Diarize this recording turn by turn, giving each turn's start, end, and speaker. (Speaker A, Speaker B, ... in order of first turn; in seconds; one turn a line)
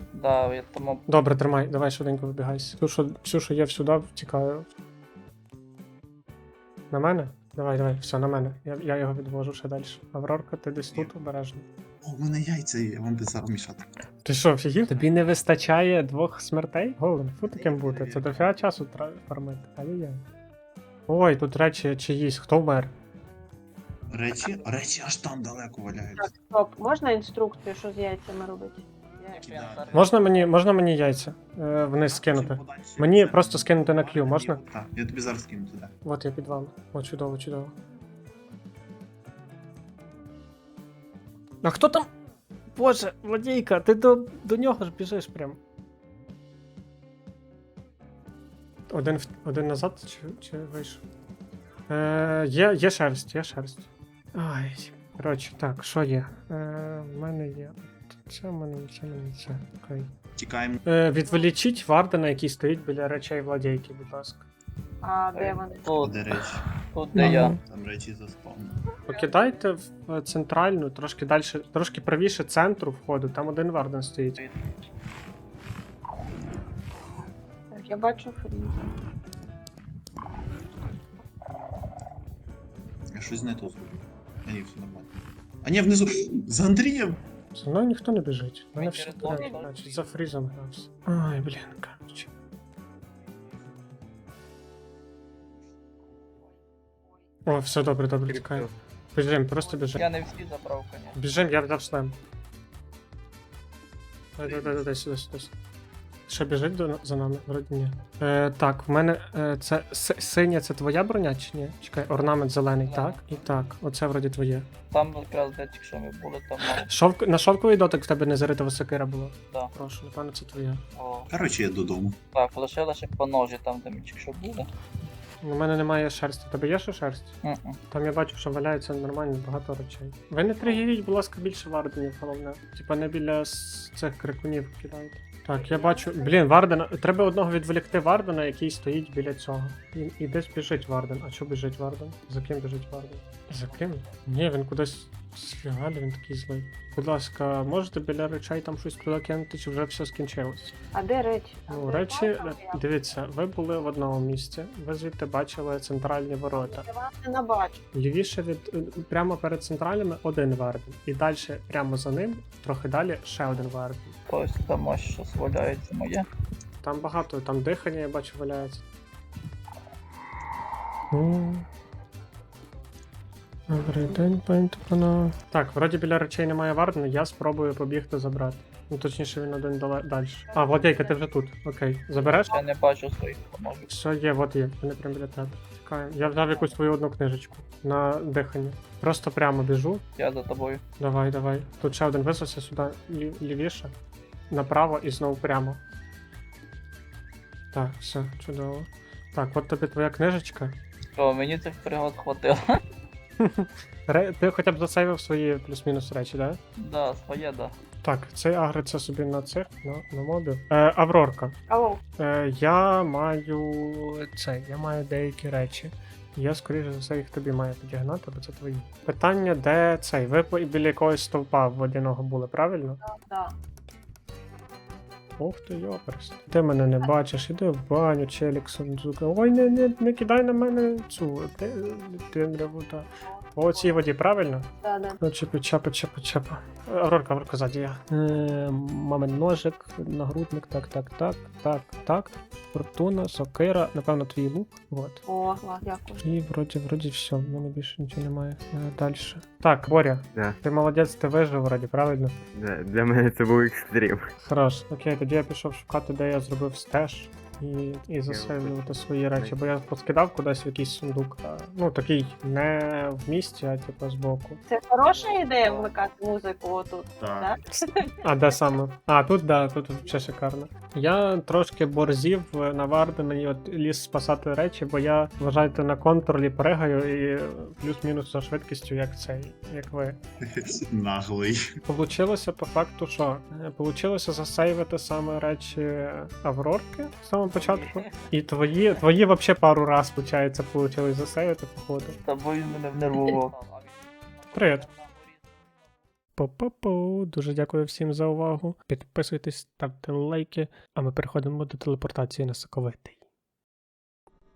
Speaker A: 0.1-1.0
Speaker B: 1.1-4.7
Speaker B: 6.9-11.6
Speaker C: 10.9-11.1
Speaker C: 12.0-14.0
Speaker B: 14.2-20.2
Speaker C: 17.4-18.7
Speaker B: 21.1-22.9
Speaker C: 24.1-26.3
Speaker D: 26.2-29.4
Speaker A: 29.3-30.5
Speaker C: 29.4-30.1
Speaker B: 29.9-34.6
Speaker C: 32.1-35.9
Speaker B: 36.0-37.7
Speaker B: 41.6-42.1
Speaker B: 42.7-45.6
Speaker B: 48.9-51.0
Speaker B: 51.9-60.1
Speaker C: 60.4-60.8
Speaker B: 60.8-64.5
Speaker D: 65.0-66.1
Speaker A: 65.3-66.3
Speaker C: 66.0-66.6
Speaker A: 66.9-67.6
Speaker B: 67.2-67.6
Speaker C: 67.6-68.8
Speaker B: 69.1-74.4
Speaker D: 77.7-78.9
Speaker C: 83.1-85.1
Speaker C: 85.6-87.2
Speaker B: 87.5-92.3
Speaker A: 88.8-90.1
Speaker D: 89.3-89.6
Speaker B: 97.5-100.0
Speaker E: 98.3-98.7
Speaker D: 99.6-100.0
Speaker A: 99.9-101.2
Speaker B: 101.1-102.2
Speaker B: 104.4-105.5
Speaker C: 104.4-104.8
Speaker B: 106.3-114.7
Speaker A: 112.8-113.4
Speaker A: 114.9-116.9
Speaker B: 116.8-120.8
Speaker A: 120.9-121.3
Speaker C: 121.3-122.2
Speaker A: 122.3-124.7
Speaker B: 125.4-127.4
Speaker A: 127.4-127.8
Speaker B: 127.9-150.8
Speaker D: 135.5-136.4
Speaker A: 143.5-143.8
Speaker D: 150.9-152.8
Speaker B: 151.7-156.8
Speaker D: 156.5-157.8
Speaker B: 157.9-164.2
Speaker A: 164.3-166.3
Speaker B: 166.8-168.8
Speaker B: 171.1-171.7
Speaker B: 173.7-182.5
Speaker D: 180.4-181.3
Speaker D: 182.3-182.6
Speaker A: 182.5-183.9
Speaker B: 183.9-190.0
Speaker A: 190.2-190.8
Speaker B: 191.0-193.9
Speaker B: 194.5-195.8
Speaker B: 197.7-200.8
Speaker A: 201.1-202.7
Speaker B: 203.4-206.6
Speaker A: 206.8-207.7
Speaker B: 208.0-211.6
Speaker D: 211.7-212.0
Speaker B: 212.2-223.0
Speaker D: 223.0-223.5
Speaker B: 225.4-245.2
Speaker D: 233.3-234.0
Speaker D: 234.8-235.2
Speaker D: 245.3-246.2
Speaker B: 246.2-252.4
Speaker E: 252.5-254.3
Speaker B: 254.4-264.6
Speaker E: 258.3-259.6
Speaker D: 264.7-268.1
Speaker A: 265.1-265.9
Speaker C: 267.2-267.5
Speaker B: 268.2-280.2
Speaker C: 280.5-281.6
Speaker B: 281.9-292.2
Speaker E: 287.5-287.9
Speaker A: 292.2-295.9
Speaker B: 294.5-294.9
Speaker B: 296.4-303.2